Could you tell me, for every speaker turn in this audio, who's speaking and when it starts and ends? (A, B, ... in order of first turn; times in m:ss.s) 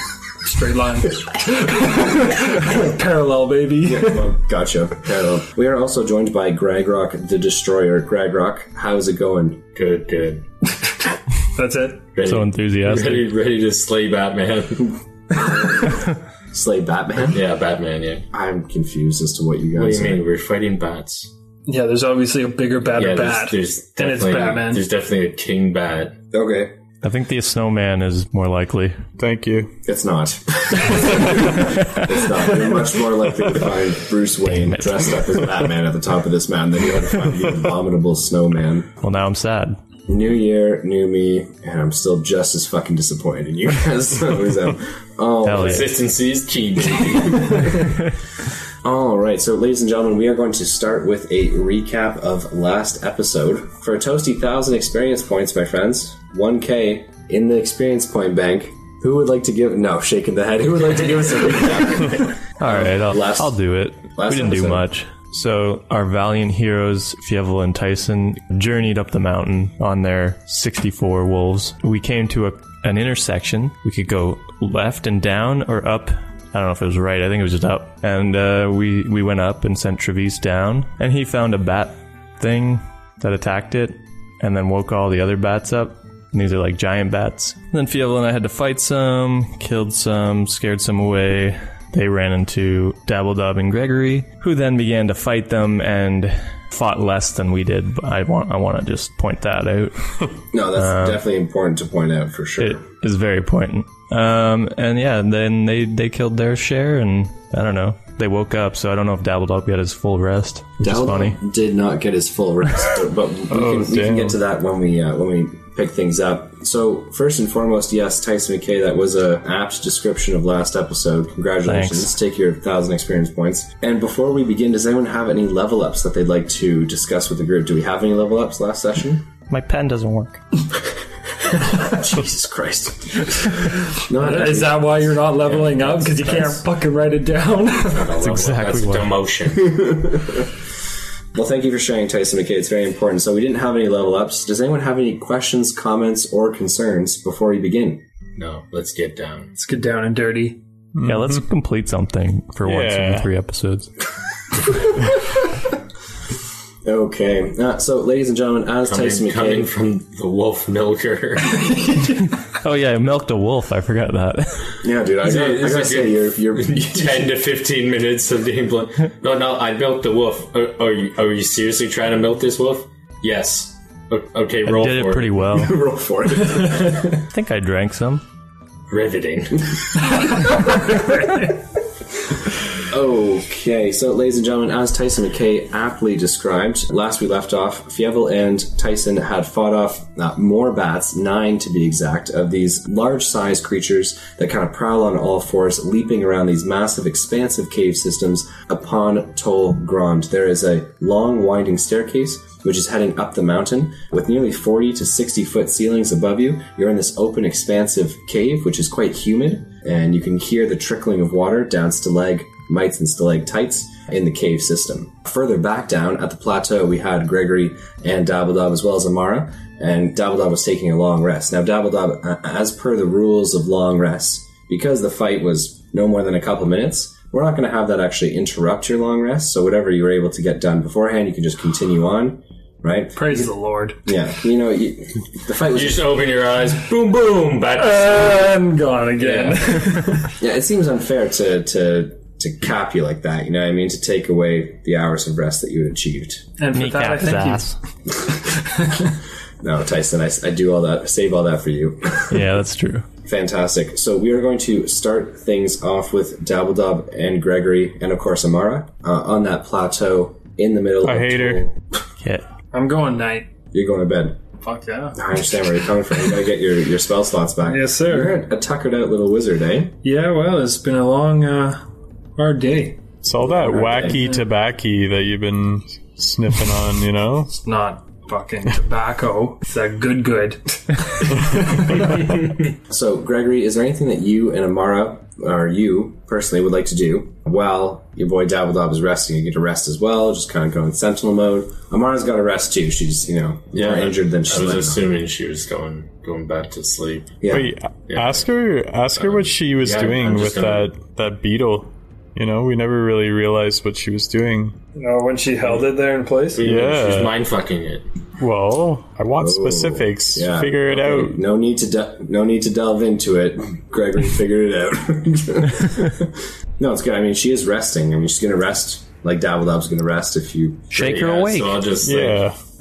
0:00.4-0:04.3 A
0:03.8-0:09.6 B
0:09.7-0:10.4 C
0:11.5-0:12.0 A
0:12.1-0:15.0 C
0:12.2-0:13.3 D
0:15.4-0:16.0 B
0:16.5-0:17.4 B
0:17.3-0:18.2 C
0:18.3-0:20.2 B
0:19.7-0:21.3 C
0:21.6-0:24.8 A
0:23.0-0:26.2 C
0:26.3-0:26.8 B
0:27.0-0:29.0 D
0:29.2-0:29.7 E
0:29.8-0:38.9 B
0:31.0-0:31.5 E
0:31.6-0:32.0 D
0:34.5-0:35.2 D
0:39.0-0:39.8 D
0:40.1-0:45.9 B
0:45.4-0:45.9 D
0:45.5-0:47.8 C
0:48.8-1:03.6 B
1:02.6-1:41.2 D
1:04.1-1:04.8 B
1:40.5-1:42.8 B
1:42.6-1:51.4 D
1:50.8-2:09.3 B
1:53.5-1:54.4 E
2:01.6-2:02.1 D
2:09.5-2:10.4 D
2:11.4-2:15.2 B
2:14.1-2:18.1 A
2:15.4-2:16.6 C
2:17.9-2:19.8 C
2:18.2-2:19.1 D
2:19.7-2:20.5 B
2:21.3-2:28.0 B
2:28.4-2:29.5 C
2:29.5-2:30.6 A
2:30.9-2:31.4 E
2:31.0-2:33.9 D
2:32.6-2:33.3 E
2:36.8-2:39.7 B
2:38.8-2:41.8 C
2:41.6-2:42.2 A
2:42.5-2:44.8 D
2:44.8-2:47.4 B
2:45.2-2:55.4 C
2:54.6-2:55.8 D
2:55.5-2:57.2 B
2:57.1-2:58.2 D
2:58.9-3:00.0 C
3:00.4-3:01.4 A
3:02.9-3:53.5 B
3:53.1-3:54.0 A
3:54.0-3:56.2 B
3:55.7-3:58.4 C
3:57.8-4:00.3 A
3:59.2-3:59.9 C
4:00.4-4:06.5 B
4:06.6-4:07.6 A
4:06.7-4:07.8 D
4:08.7-4:09.1 A
4:09.6-4:12.5 B
4:12.3-4:13.0 D
4:13.2-4:21.8 B
4:21.0-4:21.6 E
4:22.7-4:23.5 A
4:23.7-4:24.4 B
4:24.6-4:25.4 A
4:25.2-4:29.9 B
4:27.6-4:28.4 A
4:30.0-4:31.8 A
4:32.4-4:33.0 A
4:33.2-4:37.5 E
4:33.4-4:34.2 B
4:34.1-4:34.4 A
4:37.5-4:42.1 A
4:42.9-4:55.1 B
4:53.7-4:57.4 C
4:57.4-4:57.7 B
4:57.5-5:04.8 E
4:58.1-4:58.4 C
4:59.2-5:00.9 C
5:04.9-5:06.6 A
5:06.5-5:08.1 C
5:06.6-5:07.4 E
5:08.4-5:11.4 E
5:09.4-5:21.0 B
5:20.9-5:22.4 C
5:20.9-5:21.8 D
5:22.0-5:22.6 E